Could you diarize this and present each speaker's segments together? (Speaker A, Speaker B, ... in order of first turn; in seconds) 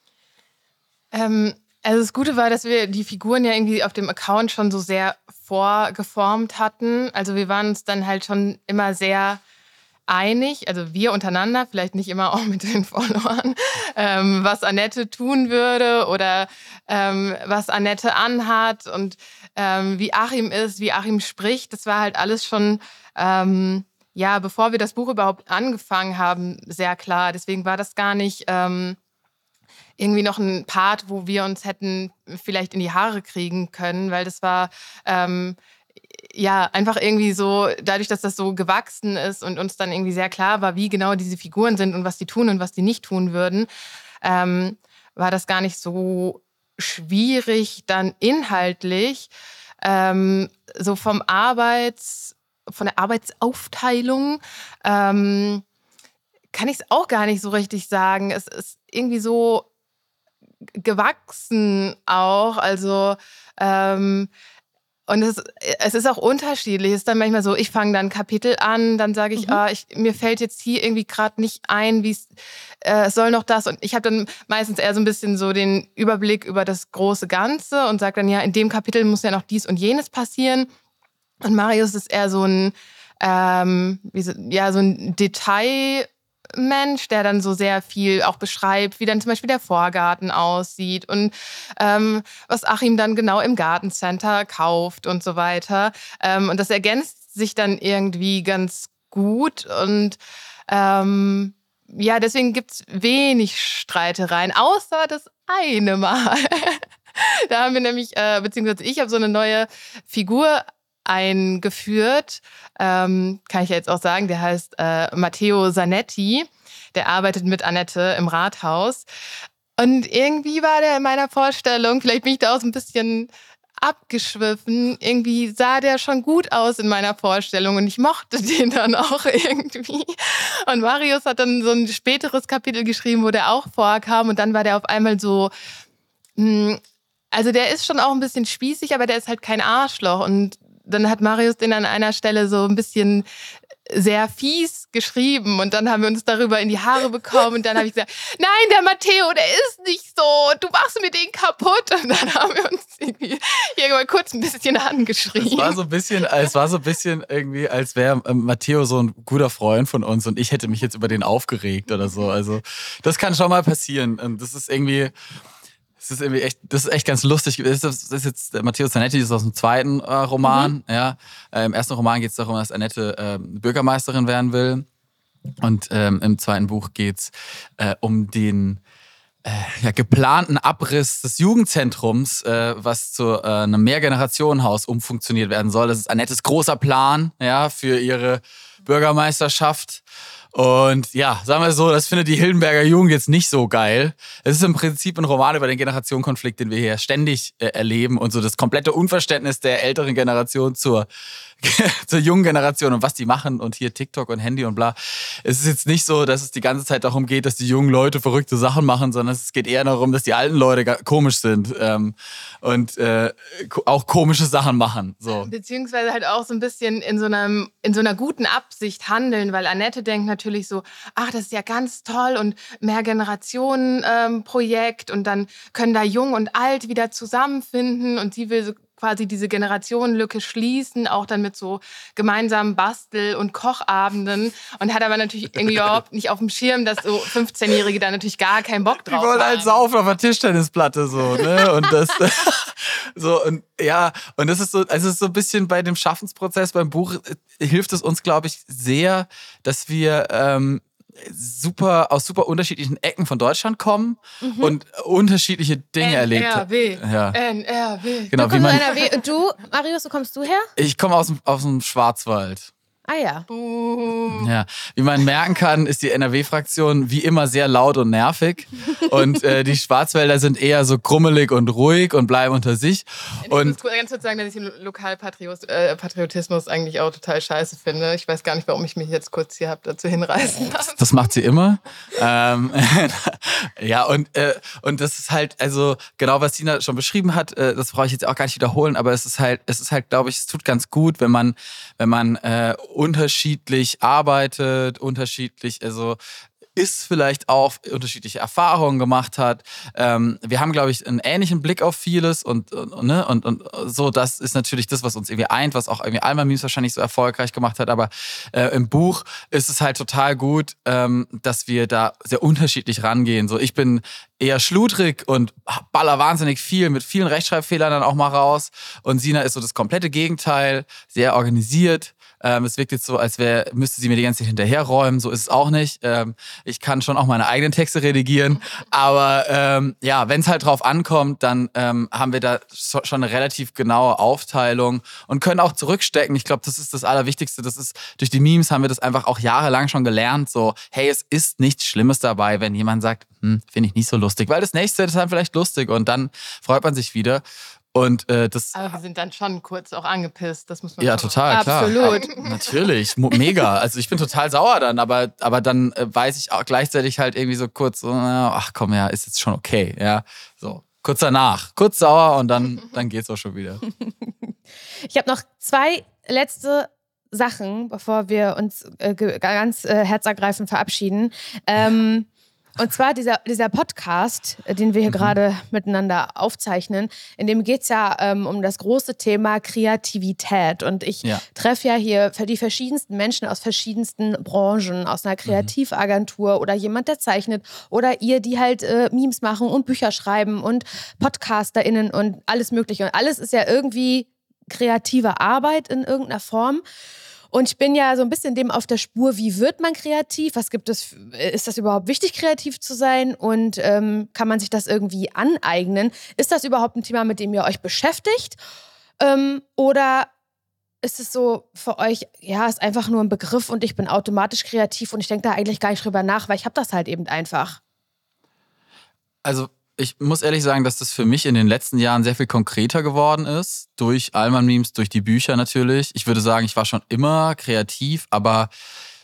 Speaker A: 1.1-9.4, 10.1-29.0, 30.0-35.6, 36.3-43.7, 44.2-49.3, 49.8-55.6, 56.5-59.7, 60.8-64.3, 65.1-72.3, 72.8-80.7, 81.4-119.1, 119.8-135.5, 136.4-136.8, 137.3-143.3, 143.9-155.8, 215.4-239.7, 256.0-259.1, 263.5-264.5, 273.4-281.2, 348.8-352.7
Speaker B: 69.4-69.6, 170.4-170.7, 254.4-254.8, 258.4-260.7, 263.1-263.5, 351.5-352.3, 363.9-364.5, 365.1-396.8, 397.5-408.6, 409.2-410.3, 411.0-417.8
Speaker C: 155.4-165.1, 166.0-174.9, 175.6-178.8, 179.4-201.1, 201.6-215.5, 235.7-236.0, 239.1-257.4, 258.3-258.9, 260.8-262.7, 264.3-273.8, 281.0-296.2, 296.8-347.4, 347.9-348.8, 351.0-363.8, 375.1-375.3, 419.4-428.7